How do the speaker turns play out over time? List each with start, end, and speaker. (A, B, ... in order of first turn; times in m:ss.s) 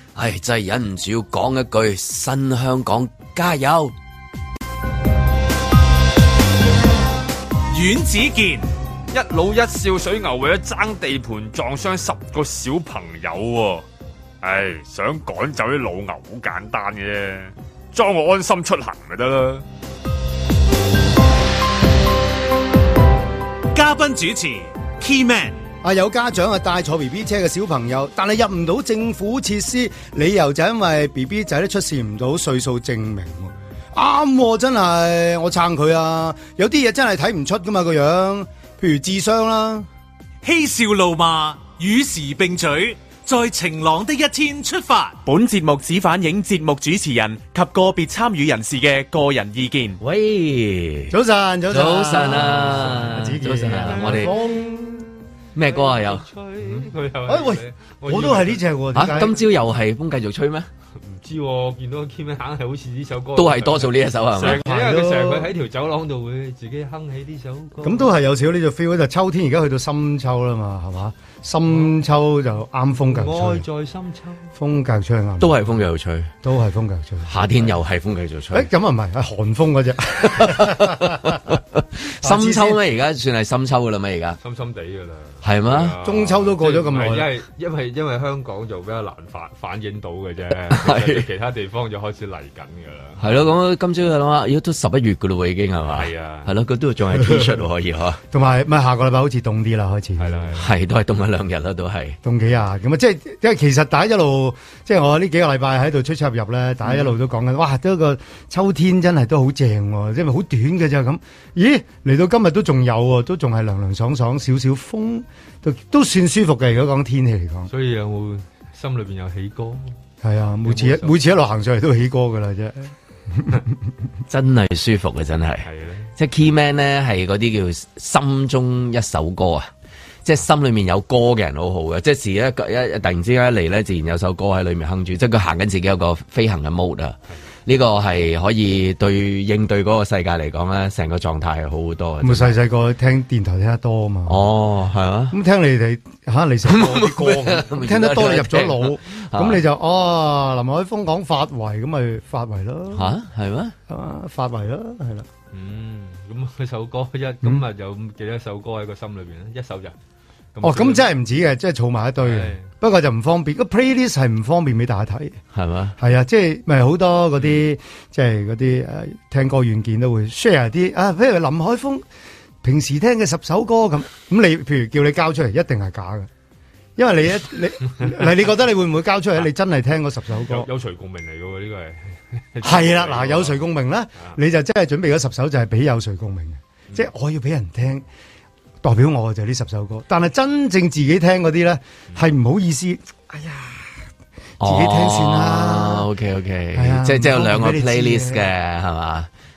0:00.2-0:03.9 A
0:07.7-0:08.7 B
0:09.1-0:13.8 C
0:14.4-0:19.6 C
0:23.7-0:25.6 B
0:25.8-0:39.9 D
0:40.4-0:45.2 B
0:45.2-0:50.0 E
0:50.0-0:51.2 A
0:51.1-0:55.1 D
0:51.7-0:54.3 A
0:52.3-0:54.8 C
0:55.6-0:56.8 A
0:55.7-0:58.6 C
0:57.3-0:59.4 D
0:59.0-1:00.7 A
1:01.0-1:08.1 C
1:03.4-1:04.6 A
1:04.4-1:05.5 D
1:07.8-1:13.6 D
1:13.1-1:14.5 C
1:14.6-1:15.6 D
1:15.4-1:16.3 A
1:16.4-1:17.6 D
1:17.3-1:18.7 A
1:18.5-1:21.4 D
1:20.2-1:24.4 A
1:22.2-1:22.8 D
1:24.4-1:33.5 C
1:25.4-1:26.0 A
1:26.0-1:27.3 D
1:30.7-1:31.3 A
1:33.2-1:38.2 A
1:36.0-1:36.5 C
1:37.1-1:37.6 D
1:38.3-1:40.5 D
1:40.2-1:40.7 C
1:40.6-1:42.2 A
1:42.2-1:57.7 D
1:57.7-1:59.9 C
2:00.2-2:03.6 D
2:00.6-2:01.3 C
2:04.3-2:09.7 A
2:05.6-2:06.1 C
2:10.2-2:22.6 A
2:22.2-2:24.5 D
2:24.3-2:25.4 A
2:25.3-2:33.1 D
2:26.7-2:29.6 A
2:33.0-2:33.8 A
2:33.9-2:35.3 D
2:35.5-2:40.0 C
2:40.6-2:41.1 C
2:40.6-2:45.4 D
2:42.2-2:42.7 C
2:45.5-2:46.0 A
2:46.0-2:52.0 D
2:52.6-2:56.3 D
2:57.0-3:00.7 D
3:00.4-3:03.6 C
3:02.6-3:08.0 D
3:08.8-3:14.0 D
3:14.6-3:16.1 D
3:14.6-3:19.3 A
3:16.7-3:18.5 D